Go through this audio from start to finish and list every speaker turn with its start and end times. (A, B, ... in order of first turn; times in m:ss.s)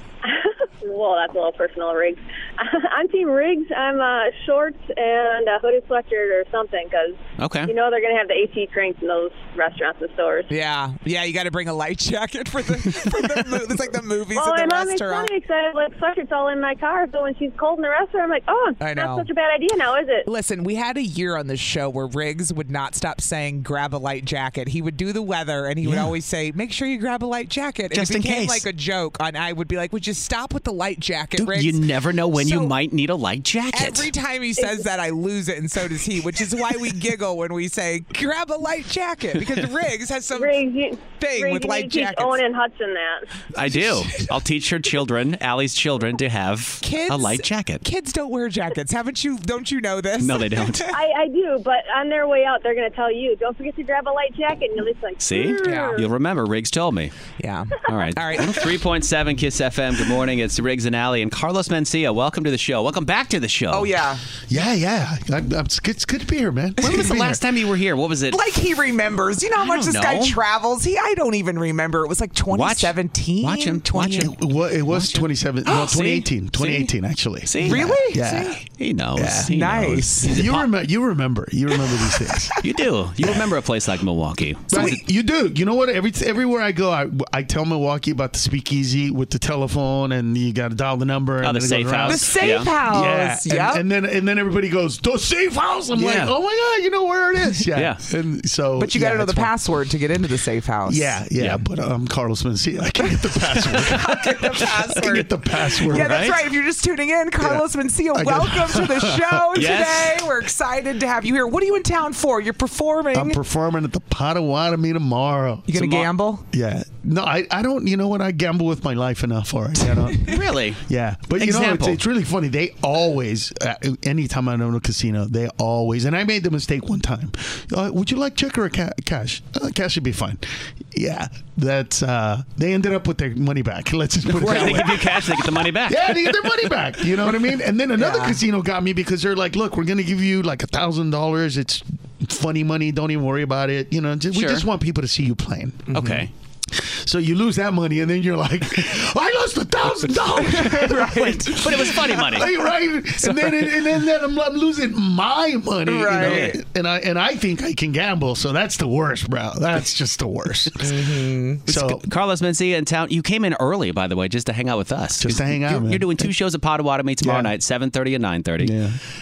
0:00.2-0:10.5 A
0:07.4-0:07.7 B
0:10.5-0:15.3 C
0:14.3-0:20.3 A
0:18.8-0:19.3 C
0:20.2-0:32.7 C
0:25.8-0:26.1 B
0:27.9-0:28.6 B
0:31.4-0:34.1 B
0:33.7-0:40.6 C
0:34.6-0:34.8 A
0:40.3-0:43.4 A
0:41.2-0:42.4 C
0:43.5-0:47.8 B
0:46.8-0:50.9 C
0:50.2-0:50.9 B
0:50.9-0:56.0 A
0:55.2-0:57.1 B
0:55.6-0:56.0 C
0:57.4-0:58.7 C
0:57.8-1:03.9 B
1:03.7-1:04.2 C
1:04.5-1:07.4 D
1:06.8-1:08.4 B
1:08.3-1:14.3 C
1:09.6-1:10.4 B
1:12.5-1:16.9 B
1:14.2-1:18.6 D
1:17.4-1:20.6 B
1:17.6-1:18.2 C
1:19.2-1:19.5 D
1:19.4-1:20.4 C
1:20.3-1:22.6 D
1:22.6-1:25.0 B
1:24.7-1:39.5 D
1:24.7-1:25.0 C
1:31.4-1:32.7 B
1:32.1-1:33.8 C
1:35.9-1:36.3 B
1:37.7-1:38.0 B
1:38.8-1:41.1 C
1:40.9-1:46.2 D
1:43.8-1:53.4 C
1:45.8-1:46.5 B
1:48.1-1:49.7 D
1:49.5-1:50.2 B
1:53.1-1:55.7 D
1:55.7-1:56.4 C
1:55.7-1:56.1 B
1:56.5-2:00.3 D
2:00.2-2:00.8 B
2:00.8-2:25.9 D
2:01.4-2:02.0 B
2:14.3-2:16.5 B
2:18.0-2:18.4 C
2:24.3-2:24.6 B
2:25.9-2:26.2 C
2:25.9-2:26.3 B
2:26.7-2:40.9 D
2:30.4-2:32.2 C
2:31.4-2:32.5 B
2:33.2-2:33.8 B
2:35.9-2:36.6 C
2:36.1-2:36.5 B
2:40.8-2:41.6 C
2:41.6-2:42.1 D
2:41.7-2:48.8 B
2:45.2-2:46.3 D
2:47.2-2:47.5 D
2:48.6-2:49.0 D